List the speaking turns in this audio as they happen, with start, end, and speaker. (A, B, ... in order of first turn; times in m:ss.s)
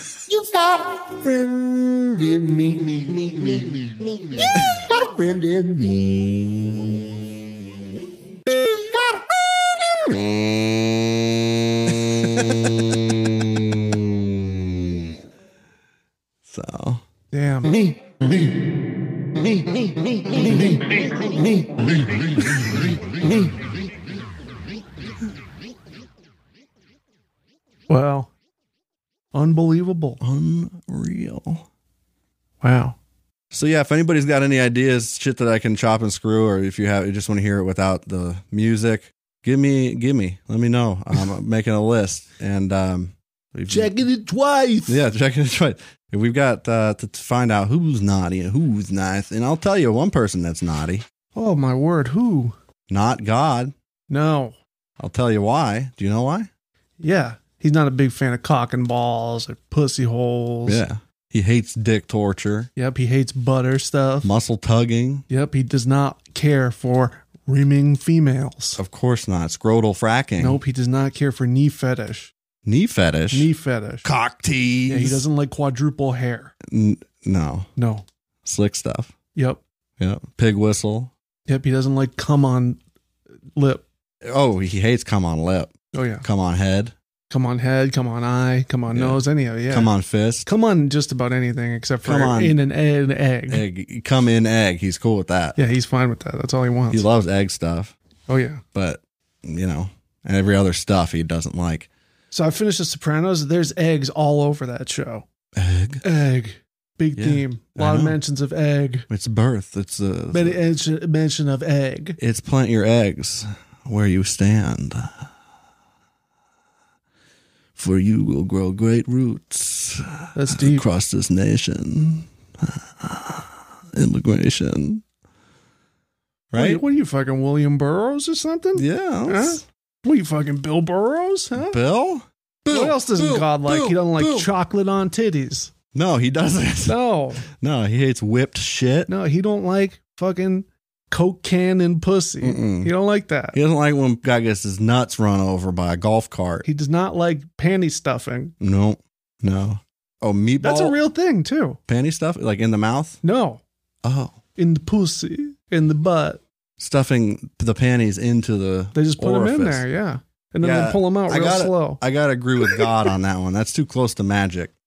0:00.3-0:06.9 A
0:08.5-0:10.4 A
0:12.1-0:12.5 B
0:16.5-0:17.0 B
0:17.3-0:17.8 C
0:27.9-0:28.3 C
0:29.3-0:30.2 C
0:30.2-0:31.6 B
0:32.6-0:33.0 C
0:33.5-0:44.0 B
0:43.7-0:44.9 C
0:44.8-0:51.0 B
0:51.3-0:52.5 C
0:52.9-0:53.7 B
0:54.1-0:54.6 C
0:55.0-0:56.5 B
0:57.0-1:00.8 C
1:00.6-1:02.7 B
1:02.8-1:04.3 C
1:04.2-1:05.2 B
1:05.3-1:08.8 C
1:08.8-1:10.6 B
1:10.4-1:12.3 C
1:12.6-1:13.5 B
1:13.3-1:14.0 C
1:14.0-1:15.2 B
1:14.9-1:16.5 C
1:16.7-1:17.7 B
1:17.8-1:18.0 C
1:18.4-1:19.1 B
1:19.3-1:19.6 C
1:20.0-1:21.1 B
1:21.5-1:22.8 C
1:23.5-1:23.8 C
1:24.2-1:26.9 B
1:25.9-1:26.2 C
1:27.3-1:29.9 C
1:28.9-1:30.5 B
1:30.4-1:33.6 C
1:32.0-1:32.6 B
1:33.5-1:35.6 B
1:35.6-1:37.0 C
1:36.9-1:37.9 B
1:38.3-1:38.6 C
1:38.7-1:41.9 B
1:42.3-1:45.2 C
1:45.6-1:46.0 B
1:46.0-1:49.0 C
1:47.1-1:48.2 B
1:49.1-1:50.6 B
1:50.3-1:52.2 C
1:52.2-1:55.3 B
1:57.8-2:05.0 B
2:00.3-2:00.8 C
2:06.5-2:06.8 B
2:06.5-2:11.8 C
2:08.7-2:09.6 B
2:11.5-2:14.5 B
2:12.7-2:15.7 C
2:15.9-2:17.0 B
2:16.8-2:17.4 C
2:17.5-2:19.1 B
2:19.1-2:23.6 C
2:22.4-2:22.9 B
2:23.5-2:26.7 B
2:26.6-2:28.5 C
2:28.6-2:31.0 B
2:30.6-2:31.8 C
2:31.9-2:33.2 B
2:33.2-2:33.6 C
2:34.0-2:34.4 B
2:34.6-2:36.4 C
2:36.8-2:39.8 B
2:38.9-2:42.0 C
2:40.6-2:44.7 B
2:42.6-2:42.9 C